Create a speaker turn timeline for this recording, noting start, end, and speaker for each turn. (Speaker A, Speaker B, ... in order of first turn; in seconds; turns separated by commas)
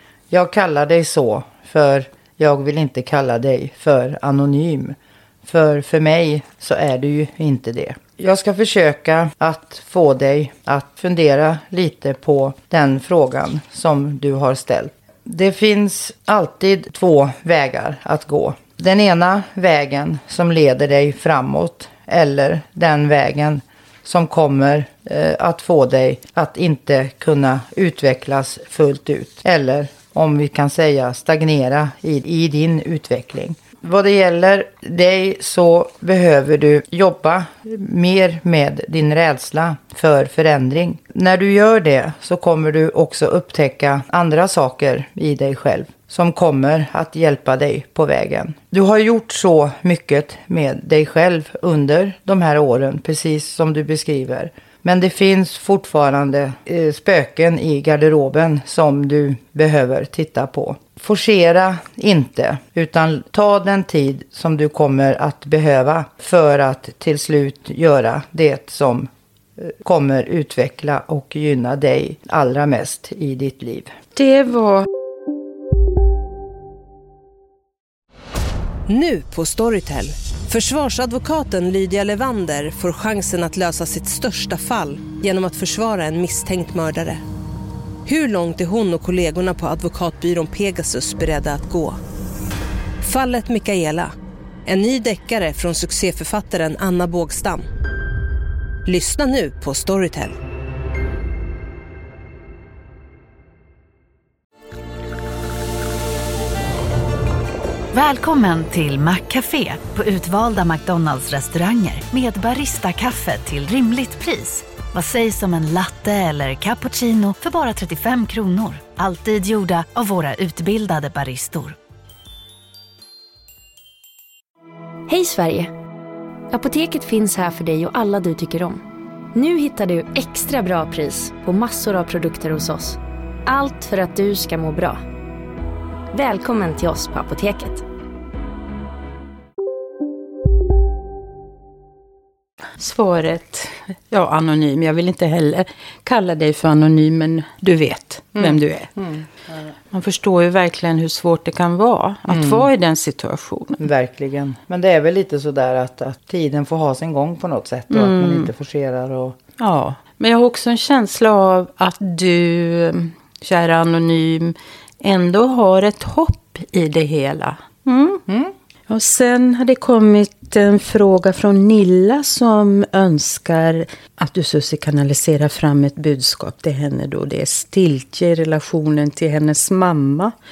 Speaker A: 0.3-73.9, Speaker B: 74.2-74.9, Speaker C: 78.9-87.2, Speaker C: 88.1-92.0, Speaker C: 93.0-94.1, Speaker C: 94.7-97.7, Speaker C: 98.8-100.4, Speaker D: 107.9-121.8, Speaker E: 125.1-125.7, Speaker E: 126.5-128.8, Speaker E: 129.3-135.0, Speaker E: 136.1-137.8, Speaker B: 142.8-148.9, Speaker A: 148.4-149.7, Speaker B: 149.9-153.9, Speaker A: 152.3-152.7, Speaker A: 153.8-159.4, Speaker B: 157.9-158.5, Speaker B: 159.6-168.2, Speaker B: 168.9-180.3